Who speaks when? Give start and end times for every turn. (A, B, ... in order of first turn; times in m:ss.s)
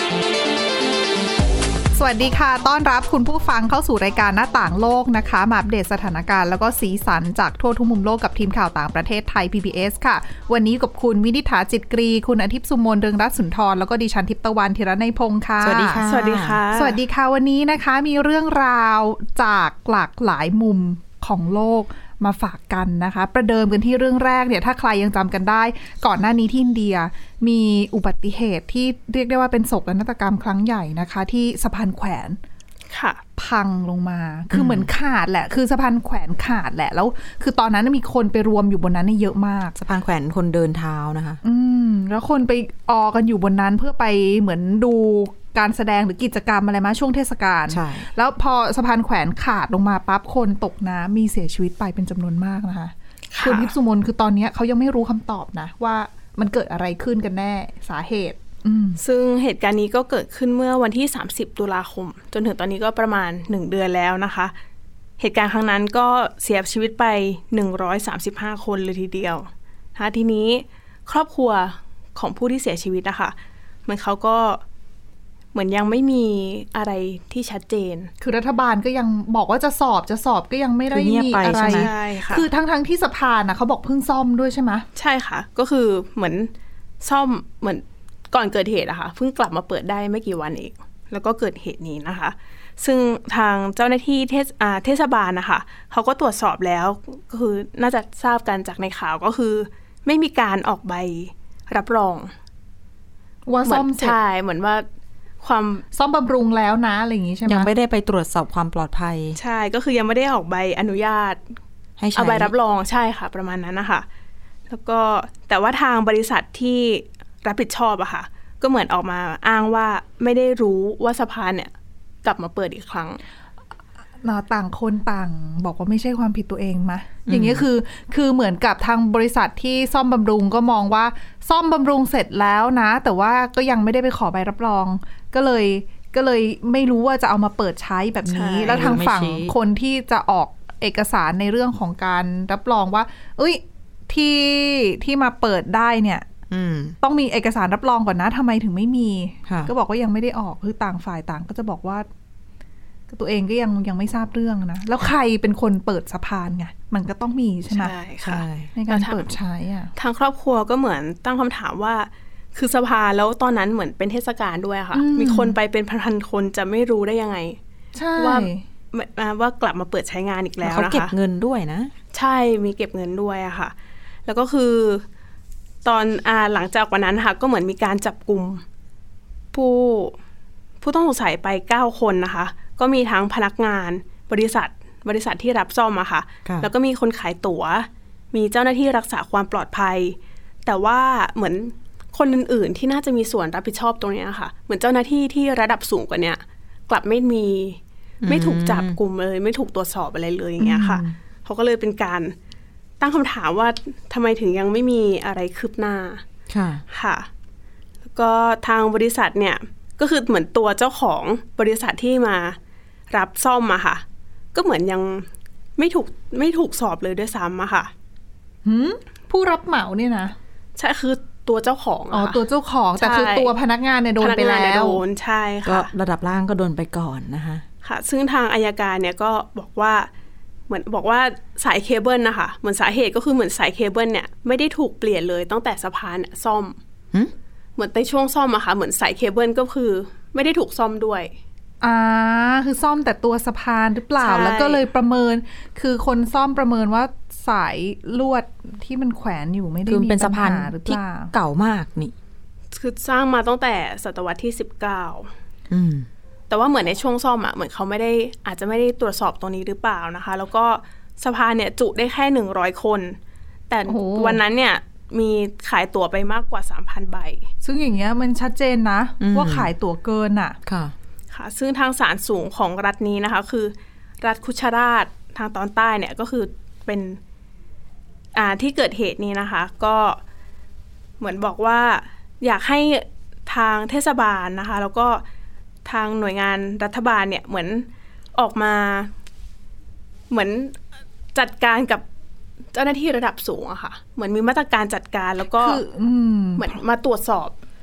0:01.9-0:16.0 A
0:15.6-0:16.6 B
0:16.0-0:17.0 C
0:16.7-0:32.4 A
0:32.9-0:33.2 C
0:33.4-0:39.8 A
0:34.5-0:34.9 B
0:39.8-0:41.4 B
0:41.4-0:59.0 A
0:47.7-0:48.1 B
0:53.3-0:53.7 C
0:59.0-1:04.5 C
1:05.2-1:13.3 C
1:13.8-1:14.6 C
1:15.5-1:18.1 C
1:18.2-1:24.8 A
1:20.9-1:21.9 B
1:21.7-1:22.5 C
1:25.0-1:26.5 C
1:27.0-1:42.3 C
1:43.5-1:44.2 A
1:43.6-1:44.8 C
1:45.4-1:45.8 C
1:45.9-1:47.7 A
1:47.4-1:49.4 B
1:49.4-1:51.4 C
1:52.0-1:52.5 B
1:52.1-1:54.0 C
1:54.7-2:01.7 C
2:02.2-2:03.2 C
2:04.2-2:26.2 A
2:07.3-2:07.6 B
2:18.3-2:18.8 C
2:18.6-2:19.5 B
2:26.5-2:27.0 B
2:27.0-2:32.1 A
2:33.1-2:37.9 A
2:37.7-2:39.3 C
2:38.2-2:38.7 B
2:38.7-2:39.9 A
2:40.0-2:47.6 C
2:44.9-2:45.6 A
2:47.9-2:48.6 A
2:48.2-2:51.1 C
2:50.6-2:51.9 B
2:52.1-2:53.7 C
2:54.2-2:55.0 C
2:55.8-2:58.6 C
2:59.5-3:00.2 C
3:00.8-3:22.3 C
3:06.4-3:06.7 B
3:18.2-3:19.0 B
3:20.6-3:21.1 B
3:23.0-3:26.2 C
3:26.5-3:26.8 B
3:26.9-3:27.3 C
3:28.0-3:32.6 C
3:33.1-3:34.0 C
3:34.5-3:37.9 C
3:38.6-3:40.3 A
3:40.8-3:42.4 C
3:42.1-3:45.0 A
3:43.0-3:43.5 C
3:44.2-3:45.9 C
3:45.6-3:47.6 B
3:47.8-3:50.1 C
3:50.7-3:56.8 C
3:57.8-4:01.3 C
4:01.8-4:11.3 A
4:04.2-4:04.8 C
4:09.9-4:12.1 B
4:12.7-4:15.3 C
4:15.7-4:16.1 B
4:16.5-4:23.2 C
4:23.7-4:27.5 C
4:23.9-4:24.4 A
4:27.6-4:30.6 A
4:29.2-4:29.7 B
4:30.6-4:30.9 B
4:31.3-4:37.2 C
4:38.3-4:40.2 C
4:41.2-4:45.2 C
4:45.8-4:49.1 C
4:50.3-4:50.7 C
4:51.3-4:52.0 C
4:52.7-4:55.8 C
4:55.6-4:56.7 A
4:56.6-4:57.6 C